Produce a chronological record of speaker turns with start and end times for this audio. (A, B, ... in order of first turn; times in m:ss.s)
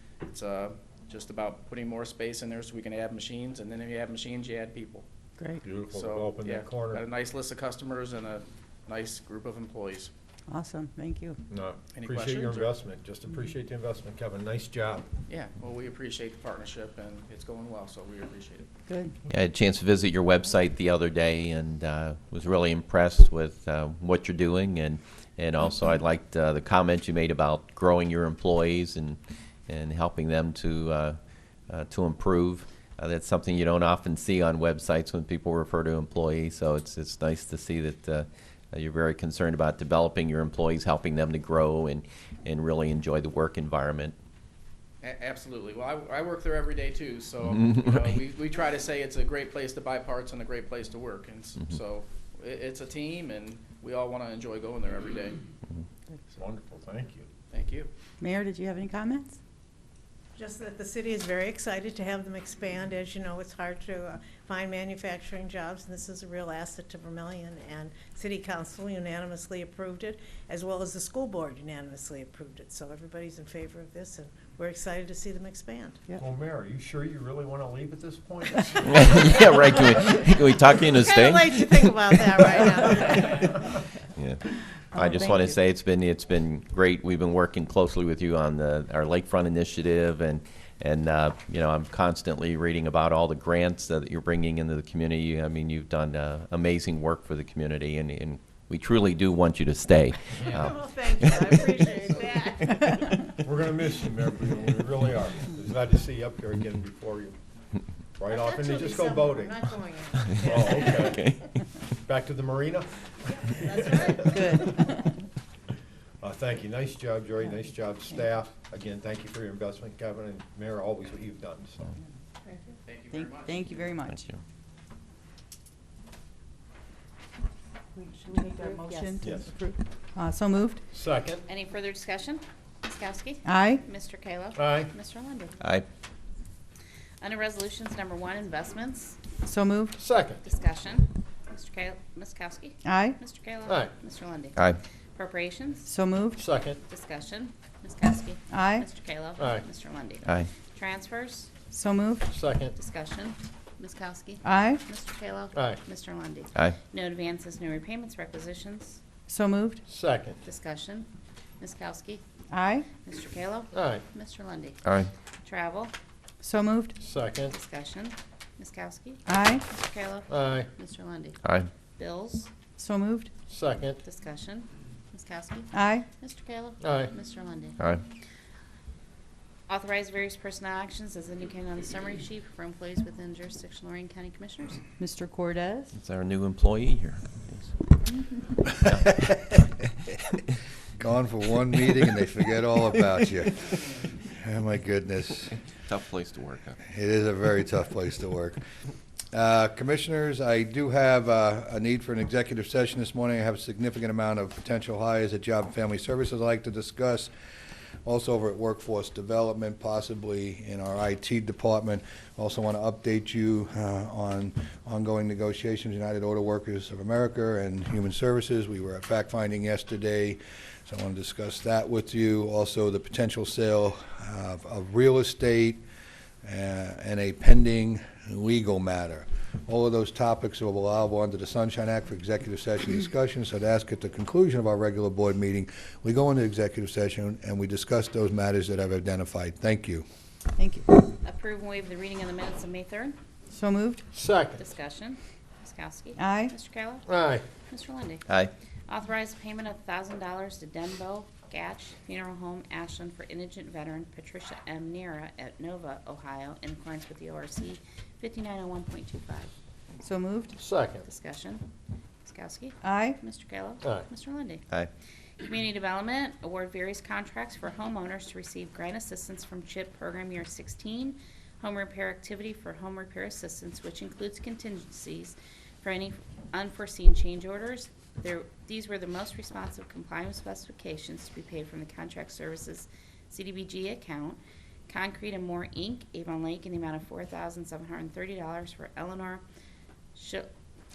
0:00.3-0:05.0 A
0:05.4-0:05.6 B
0:05.6-0:07.0 C
0:05.9-0:10.1 A
0:10.5-0:11.4 B
0:11.5-0:15.0 C
0:11.9-0:12.8 A
0:15.3-0:18.7 A
0:18.9-0:19.2 B
0:19.3-0:31.2 D
0:31.7-0:44.2 D
0:45.0-0:55.4 A
0:47.4-0:48.2 D
0:56.4-0:57.3 C
0:57.5-0:57.9 A
0:58.2-0:59.4 B
1:00.4-1:16.0 E
1:16.2-1:18.9 C
1:18.8-1:22.2 D
1:20.8-1:23.6 E
1:22.7-1:23.3 D
1:24.2-1:41.8 D
1:24.9-1:25.6 B
1:40.4-1:43.2 E
1:41.8-1:42.3 A
1:43.4-1:47.4 C
1:48.2-1:49.7 C
1:48.3-1:51.4 E
1:50.2-1:51.6 D
1:50.4-1:51.3 C
1:52.1-1:54.7 C
1:53.4-1:55.0 E
1:54.3-1:55.1 B
1:56.2-2:02.0 C
2:02.5-2:02.7 E
2:02.8-2:03.9 A
2:03.1-2:04.2 B
2:04.1-2:04.4 D
2:08.2-2:09.1 F
2:08.3-2:10.8 B
2:09.2-2:09.5 C
2:10.9-2:11.4 C
2:11.5-2:15.6 F
2:13.4-2:13.8 B
2:14.6-2:14.9 C
2:17.2-2:19.3 F
2:19.4-2:20.0 B
2:20.0-2:20.4 C
2:20.4-2:25.9 F
2:22.8-2:23.2 B
2:25.9-2:26.4 B
2:26.3-2:26.8 C
2:26.8-2:31.6 F
2:28.5-2:28.9 B
2:29.4-2:29.6 C
2:30.2-2:30.5 D
2:31.7-2:32.3 B
2:32.3-2:32.7 C
2:32.8-2:39.0 F
2:34.4-2:34.8 B
2:35.5-2:35.8 C
2:39.3-2:39.8 B
2:39.9-2:40.4 C
2:40.4-2:41.1 F
2:41.6-2:42.2 F
2:42.5-2:42.9 B
2:43.0-2:44.8 F
2:43.7-2:44.0 C
2:44.8-2:45.1 D
2:45.4-2:45.9 F
2:46.4-2:47.0 B
2:47.0-2:47.5 C
2:47.4-2:51.4 F
2:49.3-2:49.6 B
2:50.3-2:50.7 C
2:51.4-2:51.7 D
2:52.0-2:52.5 F
2:52.8-2:53.3 B
2:53.5-2:54.0 C
2:54.0-2:57.8 F
2:55.7-2:56.1 B
2:56.8-2:57.1 C
2:59.7-3:04.8 F
3:05.0-3:05.9 B
3:05.9-3:07.7 D
3:08.8-3:09.7 D
3:11.0-3:15.5 G
3:15.5-3:16.8 D
3:16.9-3:18.6 G
3:19.3-3:27.3 G
3:28.0-3:45.8 G
3:46.4-4:00.0 G
4:00.6-4:00.9 B
4:01.1-4:03.2 F
4:03.5-4:04.0 B
4:04.1-4:04.6 C
4:04.6-4:07.1 F
4:06.2-4:06.6 B
4:07.1-4:07.4 C
4:07.6-4:08.3 F
4:08.9-4:19.5 F
4:20.0-4:20.6 B
4:20.6-4:21.0 C
4:21.0-4:21.7 F
4:22.2-4:24.6 F
4:22.8-4:23.2 B
4:23.8-4:24.1 C
4:25.4-4:49.4 F
4:50.1-4:50.5 F